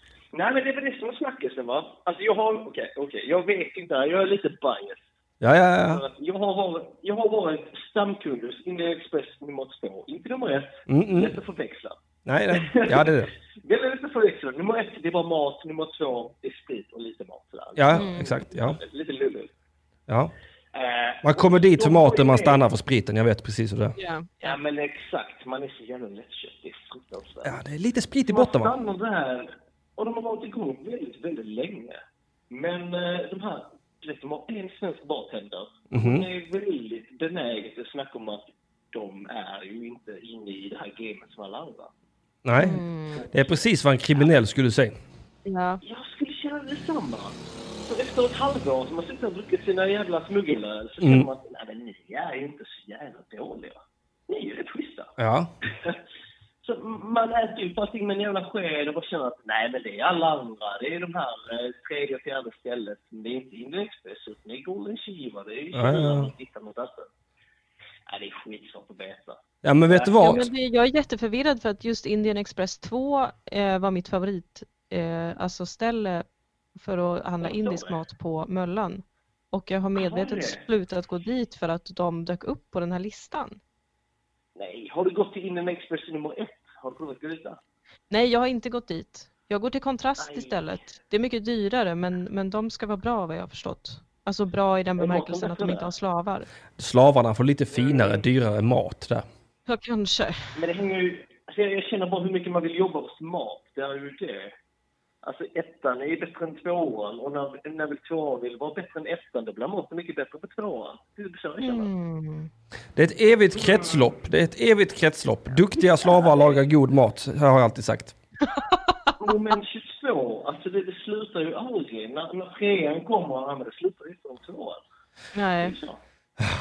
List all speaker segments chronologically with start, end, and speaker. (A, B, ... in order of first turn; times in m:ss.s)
0:00.3-0:05.0 A
0:05.4-0:06.0 B
0:05.8-0:12.0 A
0:10.9-0:11.4 B
0:12.2-0:13.3 B
0:12.5-0:19.5 A
0:17.8-0:18.8 B
0:17.9-0:18.3 C
0:20.7-0:22.6 A
0:21.2-0:24.0 B
0:24.0-0:24.6 C
0:24.4-0:27.6 A
0:27.4-0:28.7 B
0:28.3-0:41.9 A
0:35.9-0:36.2 B
0:42.4-0:42.8 B
0:42.6-0:43.3 C
0:43.2-0:43.6 A
0:43.3-0:45.0 B
0:45.4-0:45.8 C
0:45.8-0:47.3 A
0:47.8-0:55.1 A
0:51.0-0:51.3 B
0:55.2-0:55.5 B
0:55.7-0:56.0 A
0:56.6-1:07.1 A
1:05.7-1:06.3 B
1:08.1-1:10.2 A
1:09.6-1:10.5 B
1:10.1-1:23.6 C
1:17.4-1:18.0 A
1:20.0-1:20.6 A
1:24.5-1:27.6 A
1:28.1-1:36.5 C
1:30.2-1:30.6 A
1:35.0-1:35.9 A
1:36.8-1:39.2 B
1:37.7-1:38.2 A
1:39.7-1:40.5 C
1:40.6-1:44.5 A
1:45.2-1:51.9 A
1:51.6-1:52.5 C
1:53.0-1:58.2 B
1:53.6-1:54.1 A
1:56.0-1:56.5 A
1:58.4-1:59.1 C
1:59.2-2:04.8 A
2:05.3-2:05.8 C
2:05.6-2:06.0 A